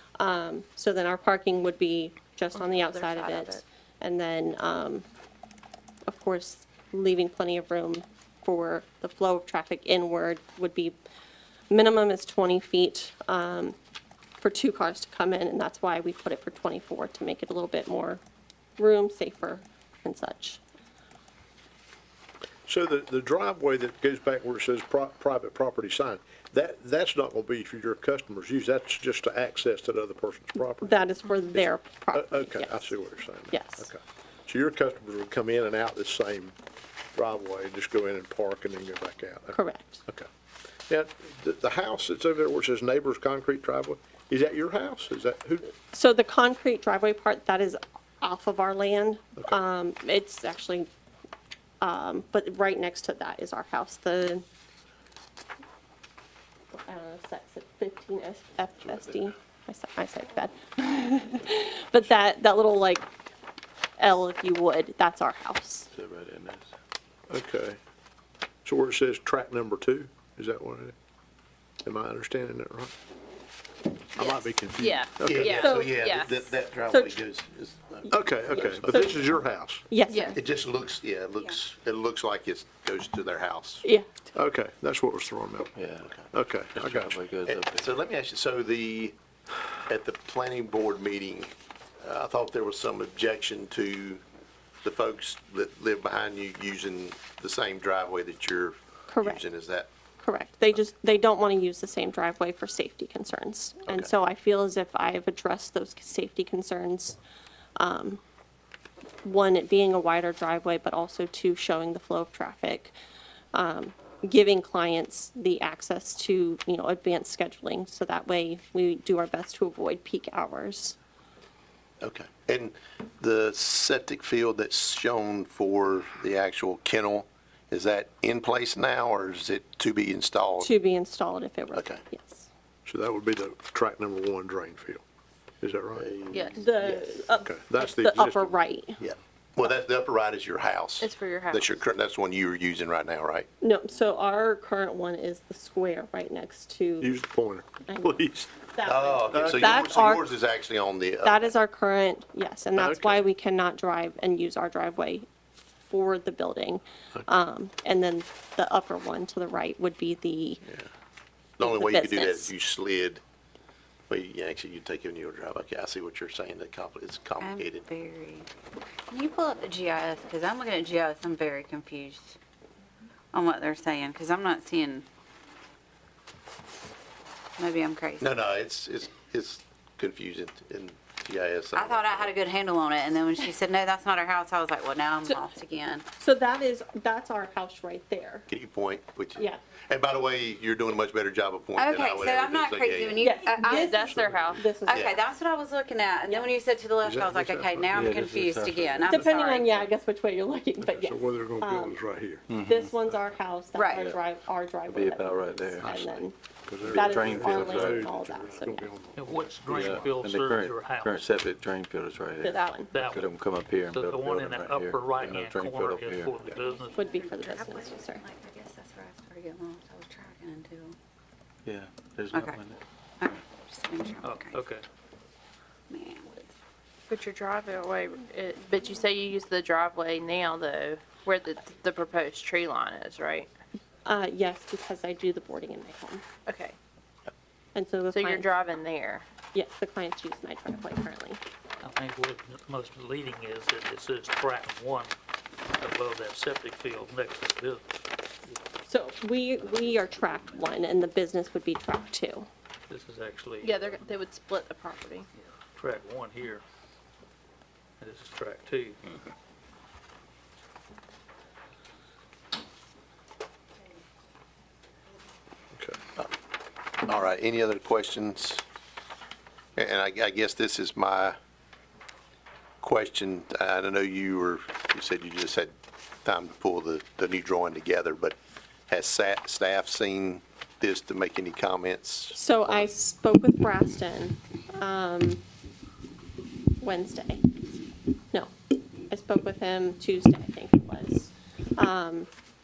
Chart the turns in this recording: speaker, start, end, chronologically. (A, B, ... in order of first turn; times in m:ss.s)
0:00.2-0:05.0 A
0:02.6-0:03.6 B
0:06.1-0:11.0 A
0:11.7-0:13.8 A
0:14.4-0:18.2 A
0:18.8-0:20.6 A
0:22.7-0:31.0 C
0:30.8-0:33.0 A
0:31.5-0:36.6 C
0:33.5-0:33.9 A
0:37.2-0:40.3 C
0:39.5-0:40.0 A
0:40.9-0:45.7 C
0:45.9-0:50.9 A
0:51.8-0:54.4 A
0:56.7-1:03.1 A
1:04.0-1:05.9 A
1:05.9-1:06.7 D
1:07.3-1:07.8 C
1:08.6-1:11.0 C
1:11.8-1:12.9 C
1:14.2-1:15.7 C
1:14.2-1:16.5 B
1:15.1-1:19.1 E
1:15.5-1:15.9 A
1:16.9-1:17.2 A
1:18.1-1:20.0 C
1:18.5-1:19.2 A
1:19.9-1:20.4 A
1:20.1-1:20.4 B
1:20.3-1:23.9 E
1:23.8-1:24.1 A
1:24.4-1:25.7 C
1:25.8-1:26.2 D
1:26.0-1:26.3 E
1:26.3-1:27.2 C
1:26.7-1:27.9 D
1:27.4-1:29.2 E
1:29.9-1:34.2 E
1:34.8-1:39.9 E
1:39.1-1:39.4 A
1:40.2-1:47.2 A
1:47.8-1:48.2 A
1:49.2-1:53.0 A
1:53.5-2:01.0 A
2:02.0-2:10.7 E
2:10.6-2:12.5 A
2:11.7-2:12.0 E
2:12.9-2:15.0 C
2:15.6-2:16.1 C
2:16.0-2:17.2 E
2:16.3-2:16.6 B
2:16.5-2:19.0 A
2:17.4-2:18.6 C
2:19.0-2:23.5 E
2:21.0-2:21.8 B
2:23.6-2:27.2 A
2:27.0-2:28.5 C
2:27.9-2:30.3 A
2:28.8-2:31.5 E
2:29.3-2:29.9 C
2:31.2-2:35.3 A
2:32.8-2:33.3 C
2:35.8-2:40.6 A
2:41.6-2:43.2 E
2:41.6-2:42.5 A
2:44.1-2:47.9 E
2:47.4-2:48.5 F
2:49.1-2:52.4 F
2:53.3-2:55.0 F
2:57.6-2:58.3 F
2:58.2-3:02.3 E
3:01.7-3:06.0 F
3:06.2-3:08.5 A
3:08.5-3:13.2 E
3:11.8-3:13.9 F
3:13.2-3:15.1 A
3:13.6-3:14.6 B
3:13.9-3:14.6 C
3:14.9-3:19.8 F
3:14.9-3:15.2 E
3:17.0-3:18.1 C
3:17.9-3:19.2 D
3:19.1-3:22.0 A
3:20.8-3:22.5 C
3:22.5-3:23.0 D
3:22.6-3:28.9 A
3:23.8-3:24.0 F
3:23.9-3:24.2 D
3:24.9-3:25.9 D
3:25.8-3:30.1 C
3:26.8-3:28.1 D
3:29.2-3:31.3 G
3:29.6-3:36.4 D
3:32.4-3:32.9 A
3:32.9-3:33.3 G
3:33.9-3:37.5 G
3:36.6-3:41.0 F
3:37.0-3:38.2 A
3:41.6-3:42.8 D
3:42.3-3:42.6 F
3:43.2-3:44.6 F
3:44.2-3:44.8 G
3:45.9-3:46.5 F
3:47.1-3:53.5 B
3:54.0-3:56.2 A
3:56.5-3:56.8 B
3:57.8-3:58.5 A
3:58.1-3:59.3 B
3:59.5-4:01.4 A
4:01.8-4:05.2 G
4:05.8-4:07.9 G
4:08.9-4:12.5 A
4:12.9-4:14.0 G
4:13.6-4:15.3 B
4:15.4-4:16.6 G
4:18.0-4:19.0 G
4:25.8-4:26.0 C
4:27.0-4:28.6 E
4:29.8-4:31.4 E
4:32.8-4:35.7 E
4:36.2-4:38.4 E
4:38.9-4:42.9 E
4:42.3-4:45.4 A
4:46.8-4:47.4 A
4:49.1-4:52.3 A